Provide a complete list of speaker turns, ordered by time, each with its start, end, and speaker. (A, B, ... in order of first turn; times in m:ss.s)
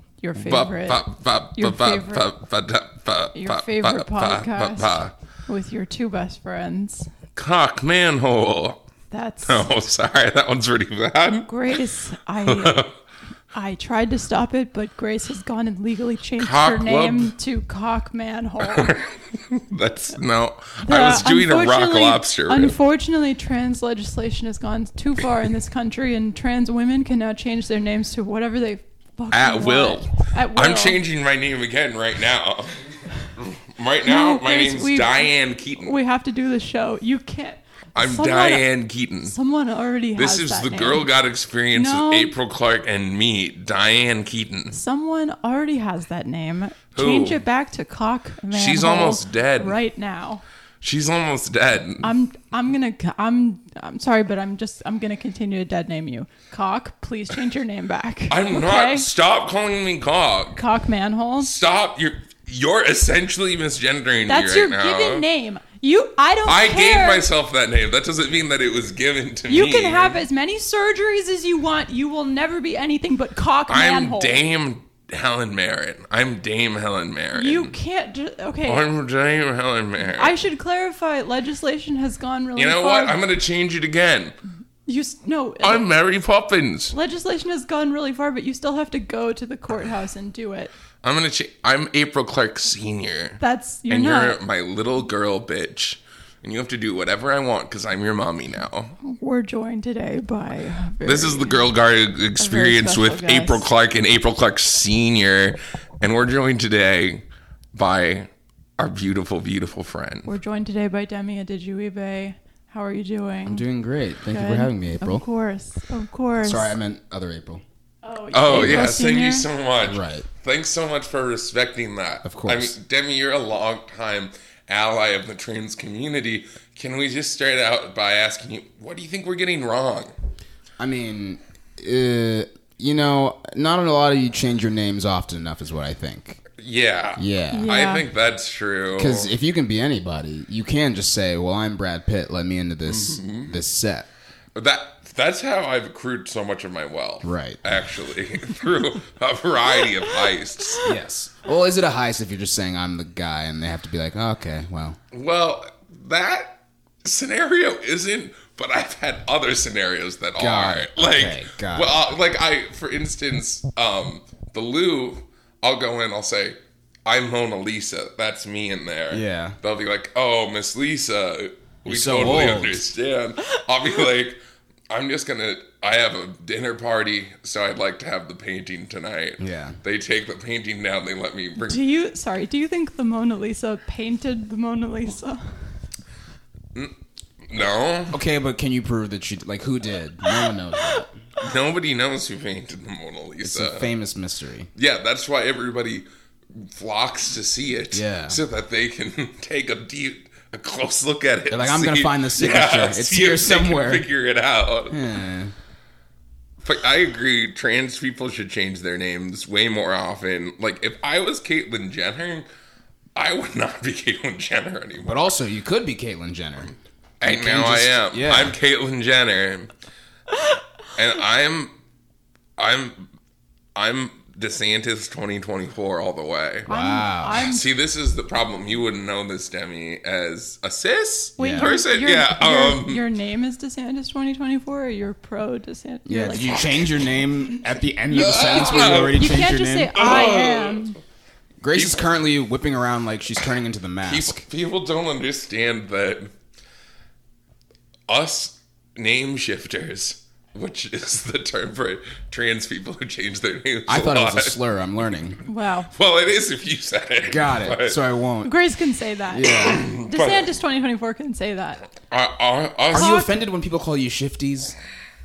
0:00.2-0:02.3 A
0:00.4-0:05.1 B
0:03.3-0:07.1 A
0:07.4-0:08.8 B
0:09.1-0:09.7 A
0:09.4-0:11.5 B
0:11.4-0:12.8 A
0:12.4-0:12.9 B
0:13.5-0:18.9 A
0:16.4-0:17.3 B
0:18.6-0:22.8 B
0:20.8-0:31.0 A
0:29.3-0:36.0 B
0:34.0-0:38.7 A
0:38.0-0:39.4 B
0:39.2-0:41.1 A
0:40.2-0:44.7 B
0:41.7-0:42.4 A
0:44.7-0:50.4 A
0:46.9-0:47.4 B
0:48.5-0:49.8 B
0:50.8-0:52.1 B
0:52.0-0:59.1 A
0:58.3-1:00.6 B
1:00.5-1:01.5 A
1:01.4-1:05.2 B
1:04.3-1:07.3 A
1:06.4-1:10.2 B
1:09.5-1:14.4 A
1:13.7-1:17.7 B
1:17.3-1:18.9 A
1:18.6-1:20.4 B
1:20.0-1:23.2 A
1:22.6-1:24.4 B
1:24.8-1:25.9 A
1:25.6-1:26.9 B
1:26.9-1:30.7 A
1:31.0-1:38.9 B
1:33.4-1:34.4 A
1:39.0-1:41.7 A
1:41.0-1:50.3 B
1:42.4-1:43.7 A
1:50.2-1:53.6 A
1:53.4-1:55.2 C
1:54.2-1:56.7 A
1:56.4-1:57.6 C
1:58.0-1:59.5 A
1:58.3-2:10.1 B
1:58.5-1:59.0 C
1:59.8-2:00.2 C
2:02.2-2:02.7 C
2:10.8-2:16.4 C
2:16.6-2:19.3 B
2:17.2-2:17.7 C
2:17.5-2:18.1 A
2:18.9-2:24.1 C
2:22.8-2:23.6 B
2:24.5-2:30.9 B
2:27.2-2:27.6 C
2:30.8-2:35.0 C
2:35.1-2:54.4 B
2:40.4-2:41.9 C
2:49.1-2:49.6 C
2:51.9-2:52.9 C
2:54.9-3:01.8 B
2:59.4-2:59.8 C
3:01.6-3:05.4 A
3:07.5-3:08.2 B
3:08.1-3:11.2 C
3:11.4-3:13.9 B
3:13.4-3:14.7 C
3:14.7-3:25.1 B
3:17.9-3:18.4 C
3:21.5-3:24.1 C
3:24.9-3:25.5 C
3:26.6-3:32.4 B
3:33.1-3:35.2 B
3:35.0-3:38.6 C
3:37.2-3:39.7 B
3:40.9-3:41.7 B
3:42.6-3:43.0 B
3:43.7-3:46.7 B
3:46.7-3:47.4 C
3:46.7-3:47.7 A
3:47.4-3:53.0 B
3:51.4-4:01.0 A
3:51.4-3:51.8 C
3:56.0-4:00.1 C
3:58.1-3:59.4 B
3:59.9-4:00.9 B
4:01.6-4:04.4 C
4:01.7-4:02.1 B
4:04.0-4:06.3 B
4:08.1-4:14.6 B
4:13.9-4:15.4 C
4:15.4-4:15.9 A
4:15.9-4:18.0 B
4:17.3-4:18.5 C
4:18.4-4:21.8 A
4:19.3-4:19.9 C
4:19.4-4:20.5 B
4:22.1-4:23.2 B
4:22.9-4:24.8 C
4:22.9-4:23.4 A